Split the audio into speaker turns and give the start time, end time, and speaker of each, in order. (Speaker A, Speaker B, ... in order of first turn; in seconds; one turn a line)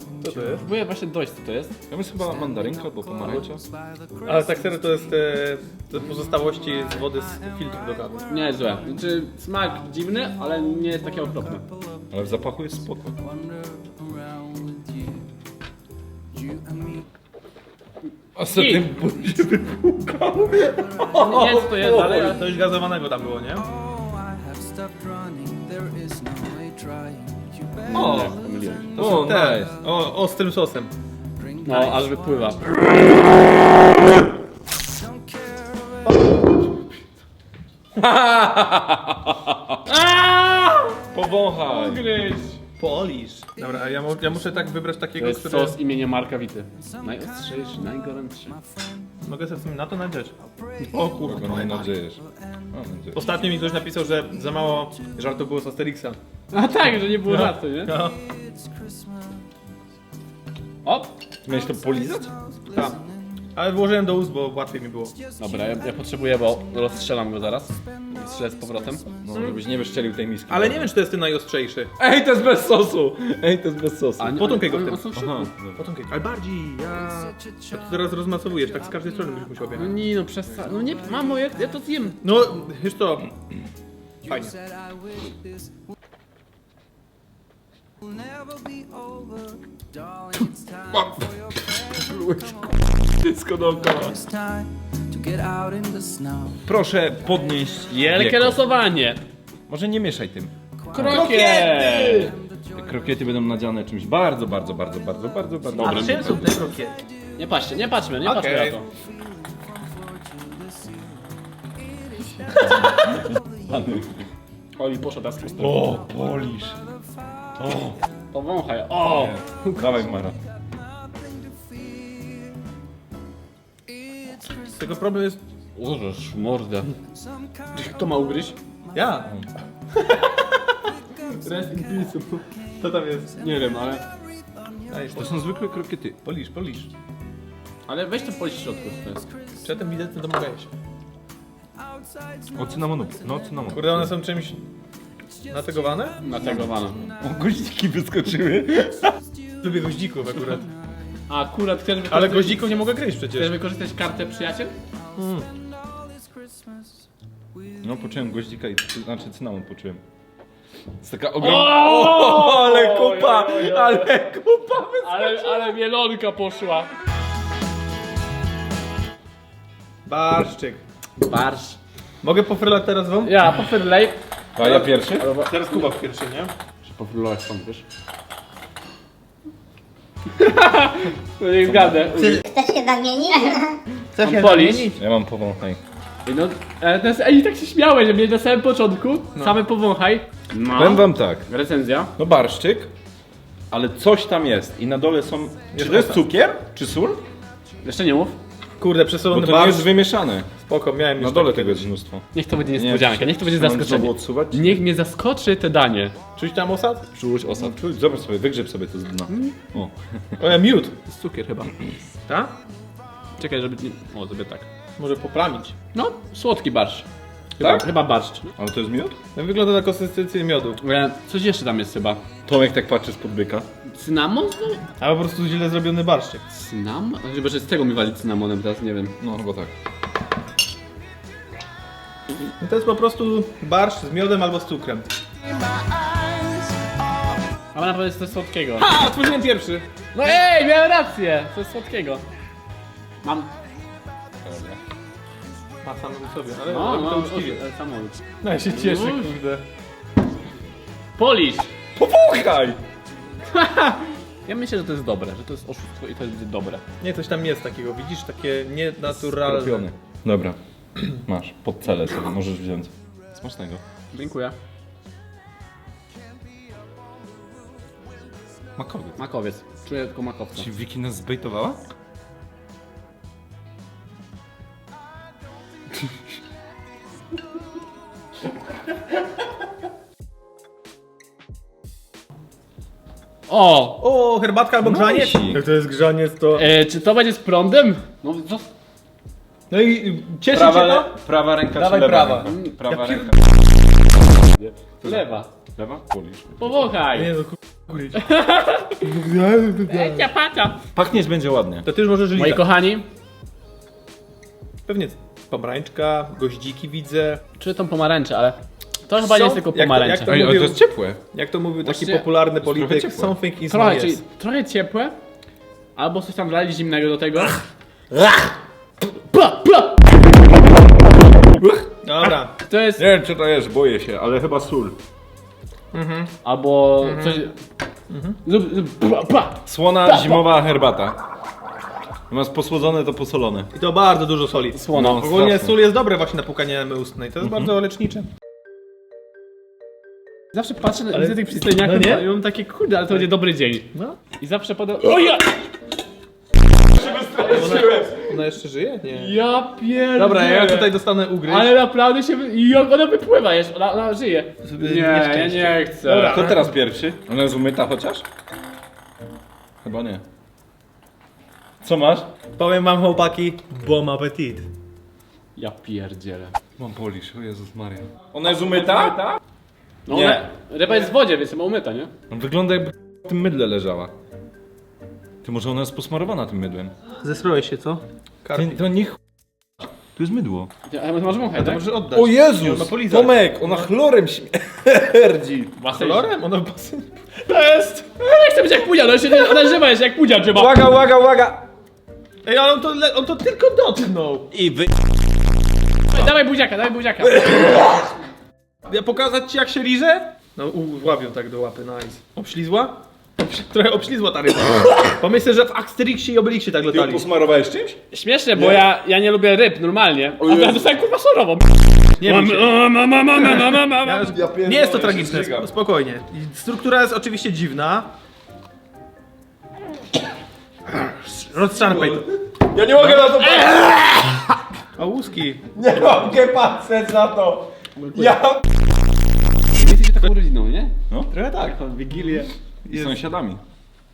Speaker A: 0.2-0.7
Speaker B: 0.5-1.8
Speaker C: 1.9-3.6
Speaker A: 4.2-8.2
Speaker B: 8.3-11.7
Speaker C: 12.1-13.2
Speaker C: 18.4-21.4
Speaker B: 18.5-18.8
Speaker B: 21.1-22.4
Speaker A: 21.2-23.7
Speaker D: 25.4-27.0
Speaker B: 27.9-28.9
Speaker A: 27.9-28.3
Speaker A: 28.9-30.9
Speaker C: 29.0-29.7
Speaker B: 31.6-32.7
Speaker C: 38.0-39.7
Speaker B: 39.9-41.0
Speaker C: 41.1-42.1
Speaker B: 41.6-42.6
Speaker A: 42.8-45.8
Speaker B: 45.2-48.6
Speaker A: 49.2-50.3
Speaker A: 50.9-51.8
Speaker B: 51.2-51.8
Speaker C: 51.2-53.2
Speaker A: 53.1-56.2
Speaker B: 56.5-58.0
Speaker A: 57.2-58.2
Speaker B: 60.9-61.1
Speaker C: 61.5-62.3
Speaker A: 62.7-63.0
Speaker A: 63.5-65.2
Speaker B: 65.4-69.0
Speaker C: 69.2-70.9
Speaker A: 70.5-71.9
Speaker C: 72.0-74.4
Speaker B: 74.2-75.5
Speaker A: 74.3-75.0
Speaker C: 75.1-75.8
Speaker A: 75.8-79.9
Speaker B: 79.8-82.2
Speaker A: 82.2-83.3
Speaker A: 84.3-84.6
Speaker C: 90.9-94.3
Speaker D: 95.3-96.3
Speaker C: 96.6-98.6
Speaker B: 97.9-99.2
Speaker C: 99.7-101.3
Speaker B: 100.9-102.3
Speaker A: 101.0-102.3
Speaker C: 102.7-106.6
Speaker B: 105.8-106.4
Speaker A: 105.8-107.0
Speaker B: 107.4-108.8
Speaker A: 108.2-108.8
Speaker C: 112.6-114.1
Speaker B: 114.8-115.8
Speaker C: 115.6-116.8
Speaker C: 117.6-118.0
Speaker B: 118.3-119.4
Speaker C: 119.0-120.4
Speaker A: 124.7-125.4
Speaker B: 125.8-126.9
Speaker B: 127.8-128.6
Speaker A: 128.9-129.3
Speaker A: 129.9-130.6
Speaker B: 131.4-132.4
Speaker A: 132.8-133.3
Speaker B: 133.4-134.0
Speaker A: 134.9-135.3
Speaker C: 135.2-136.2
Speaker A: 136.2-136.9
Speaker B: 137.9-139.2
Speaker A: 139.6-140.7
Speaker C: 142.5-144.1
Speaker A: 143.7-144.6
Speaker A: 145.5-146.2
Speaker B: 146.2-147.0
Speaker C: 146.4-149.1
Speaker A: 149.6-150.7
Speaker B: 151.3-152.8
Speaker A: 152.1-153.6
Speaker B: 153.3-154.7
Speaker A: 155.2-155.5
Speaker C: 157.8-160.0
Speaker C: 161.0-165.8
Speaker B: 161.4-164.1
Speaker B: 165.0-166.9
Speaker A: 170.1-170.8
Speaker B: 171.2-171.8
Speaker A: 172.2-173.3
Speaker B: 173.2-174.2
Speaker C: 174.6-175.3
Speaker A: 174.6-174.9
Speaker B: 175.2-175.8
Speaker A: 175.4-176.5
Speaker B: 176.8-177.8
Speaker B: 180.4-182.4
Speaker C: 181.7-182.3
Speaker D: 182.4-183.8
Speaker A: 184.1-185.0
Speaker B: 184.2-184.9
Speaker C: 184.9-185.8
Speaker B: 186.2-192.1
Speaker C: 190.7-191.5
Speaker C: 192.2-192.9
Speaker C: 193.7-197.2
Speaker A: 195.7-196.2
Speaker B: 197.8-198.4
Speaker A: 198.8-199.9
Speaker C: 199.3-200.5
Speaker A: 200.6-201.9
Speaker C: 201.2-204.8
Speaker B: 202.3-206.2
Speaker A: 206.4-207.1
Speaker C: 207.2-210.2
Speaker B: 209.3-209.6
Speaker A: 210.4-210.9
Speaker B: 211.1-211.7
Speaker A: 212.3-212.5
Speaker B: 213.4-214.7
Speaker A: 215.0-215.8
Speaker B: 215.9-217.1
Speaker B: 217.6-218.5
Speaker C: 217.6-217.9
Speaker C: 218.6-219.2
Speaker A: 219.3-220.8
Speaker B: 220.8-222.2
Speaker C: 222.5-223.7
Speaker B: 223.9-224.8
Speaker A: 225.0-226.4
Speaker B: 226.5-229.2
Speaker C: 229.2-229.7
Speaker A: 232.6-235.1
Speaker B: 237.7-238.9
Speaker A: 238.8-239.9
Speaker B: 240.1-242.2
Speaker B: 243.2-243.5
Speaker C: 244.4-244.8
Speaker A: 245.8-247.6
Speaker B: 246.7-249.3
Speaker A: 248.4-249.6
Speaker B: 251.2-251.7
Speaker C: 252.0-252.8
Speaker B: 253.5-256.8
Speaker A: 257.0-259.9
Speaker C: 259.3-263.8
Speaker B: 264.1-264.6
Speaker C: 268.8-269.2
Speaker B: 269.2-270.7
Speaker C: 270.6-271.8
Speaker B: 283.5-284.0
Speaker A: 284.0-286.7
Speaker C: 284.8-285.6
Speaker B: 286.6-288.7
Speaker A: 289.7-291.1
Speaker C: 290.5-293.4
Speaker A: 291.8-293.4
Speaker B: 292.5-292.7
Speaker C: 295.0-296.7
Speaker B: 295.0-295.5
Speaker B: 296.6-297.4
Speaker A: 297.2-298.2
Speaker B: 298.1-299.0
Speaker A: 299.0-300.3
Speaker B: 299.9-300.8
Speaker C: 300.9-301.9
Speaker A: 301.9-302.6
Speaker B: 302.3-303.1
Speaker A: 304.9-307.4
Speaker B: 307.6-308.6
Speaker B: 309.1-310.4
Speaker A: 309.2-310.8
Speaker C: 310.3-311.2
Speaker A: 311.3-314.2
Speaker B: 311.8-312.3
Speaker C: 312.6-313.3
Speaker B: 313.7-315.2
Speaker B: 316.0-317.6
Speaker B: 319.1-320.0
Speaker C: 321.5-322.4
Speaker A: 322.0-322.5
Speaker B: 322.7-323.0
Speaker C: 322.9-325.0
Speaker A: 325.9-326.3
Speaker B: 326.4-327.5
Speaker A: 327.0-327.4
Speaker A: 328.1-328.4
Speaker B: 328.4-330.4
Speaker C: 329.7-331.2
Speaker C: 332.3-333.7
Speaker A: 333.7-338.3
Speaker B: 334.7-335.3
Speaker C: 334.9-335.8
Speaker C: 337.4-337.7
Speaker B: 340.5-345.6
Speaker A: 341.1-342.4
Speaker C: 346.9-348.2
Speaker B: 347.1-347.9
Speaker A: 347.4-349.3
Speaker B: 349.1-356.4
Speaker A: 350.2-351.8
Speaker A: 354.6-356.7
Speaker C: 356.2-358.3
Speaker C: 359.8-360.2
Speaker C: 361.8-362.3
Speaker A: 362.6-364.7
Speaker B: 365.6-366.6
Speaker C: 366.8-369.4
Speaker B: 368.6-369.1
Speaker B: 370.1-372.1
Speaker C: 370.1-370.4
Speaker C: 372.3-374.1
Speaker C: 375.4-376.9
Speaker A: 377.2-378.8
Speaker C: 378.6-379.2
Speaker C: 380.2-380.7
Speaker B: 380.9-381.8
Speaker A: 381.6-383.9
Speaker C: 382.1-385.7
Speaker B: 385.8-386.4
Speaker A: 385.9-388.1
Speaker B: 388.2-390.9
Speaker C: 390.5-391.7
Speaker A: 392.4-394.5
Speaker C: 394.5-394.9
Speaker B: 396.1-397.8
Speaker A: 398.9-407.2
Speaker C: 406.9-408.0
Speaker B: 408.1-414.3
Speaker A: 408.6-408.9
Speaker C: 410.4-410.9
Speaker A: 412.2-412.8
Speaker A: 414.0-418.1
Speaker C: 414.2-415.7
Speaker A: 421.3-422.3
Speaker C: 421.8-424.5
Speaker A: 423.0-423.3
Speaker A: 425.0-425.6
Speaker C: 425.8-428.7
Speaker B: 429.7-430.9
Speaker A: 431.3-433.2
Speaker B: 431.5-432.5
Speaker C: 432.9-433.6